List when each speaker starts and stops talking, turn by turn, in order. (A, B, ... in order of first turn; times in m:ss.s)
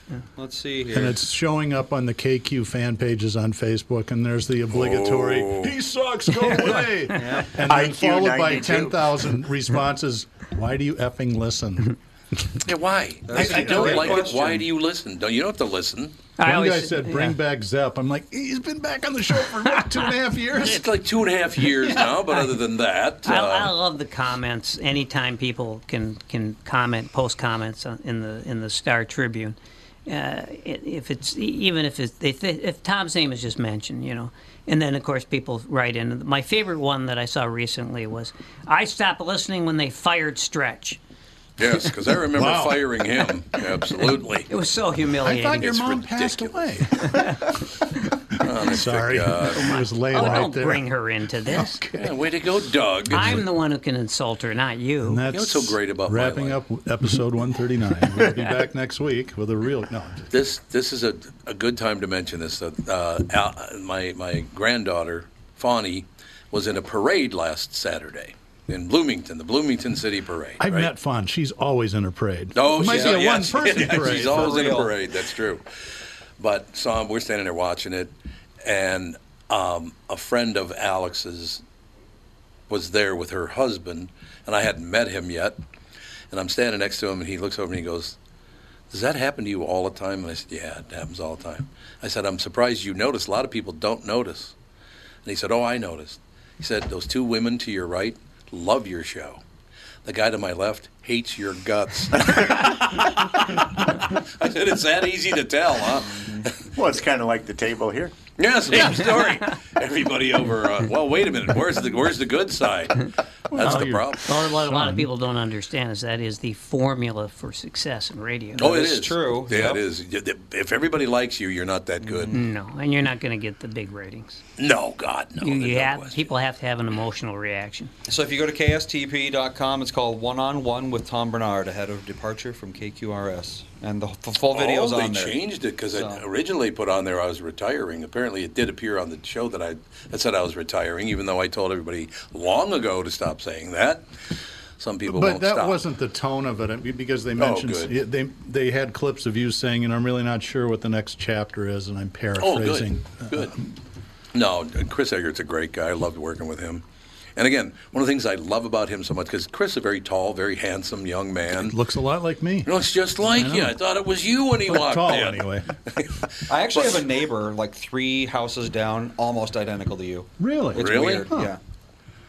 0:00.3-0:01.2 A
0:00.9-0:11.9 B
0:04.7-0:05.8 C
0:07.2-0:07.5 A
0:07.6-0:09.2 D
0:12.6-0:16.1 C
0:13.3-0:14.6 A
0:13.3-0:14.4 B
0:16.4-0:17.4 E
0:16.4-0:20.8 B
0:20.6-0:23.7 C
0:23.2-0:41.0 E
0:41.6-0:44.5 C
0:42.3-0:42.8 B
0:44.5-0:45.8 E
0:45.2-0:47.3 B
0:45.5-0:47.2 C
0:47.1-0:47.4 E
0:48.4-0:50.8 B
0:48.4-0:49.8 C
0:49.5-0:51.8 E
0:51.5-0:52.1 B
0:51.9-0:53.4 C
0:53.1-0:55.2 E
0:53.1-0:53.4 B
0:55.0-1:00.3 B
0:55.3-0:56.6 C
1:00.3-1:10.9 C
1:10.6-1:14.7 B
1:12.5-1:15.6 C
1:12.8-1:14.9 A
1:16.4-1:18.1 C
1:18.6-1:21.6 C
1:22.7-1:25.6 C
1:26.3-1:28.2 C
1:28.9-1:34.5 C
1:35.2-1:39.4 C
1:40.0-1:46.5 C
1:46.7-1:48.2 D
1:48.4-1:54.3 C
1:53.5-1:55.0 B
1:53.6-1:58.6 E
1:58.6-1:59.8 A
1:58.6-2:02.3 C
2:02.0-2:02.4 A
2:02.3-2:04.4 E
2:04.6-2:06.3 C
2:05.4-2:07.9 E
2:08.1-2:15.4 A
2:14.5-2:24.0 C
2:15.9-2:16.2 A
2:24.8-2:25.8 C
2:25.1-2:33.6 B
2:27.4-2:27.9 C
2:32.4-2:33.5 C
2:34.3-2:36.8 C
2:37.4-2:41.7 C
2:41.6-2:42.7 B
2:42.6-2:47.0 C
2:43.2-2:43.7 B
2:44.7-2:45.7 B
2:46.5-2:51.6 A
2:50.4-2:51.5 B
2:50.8-2:51.3 C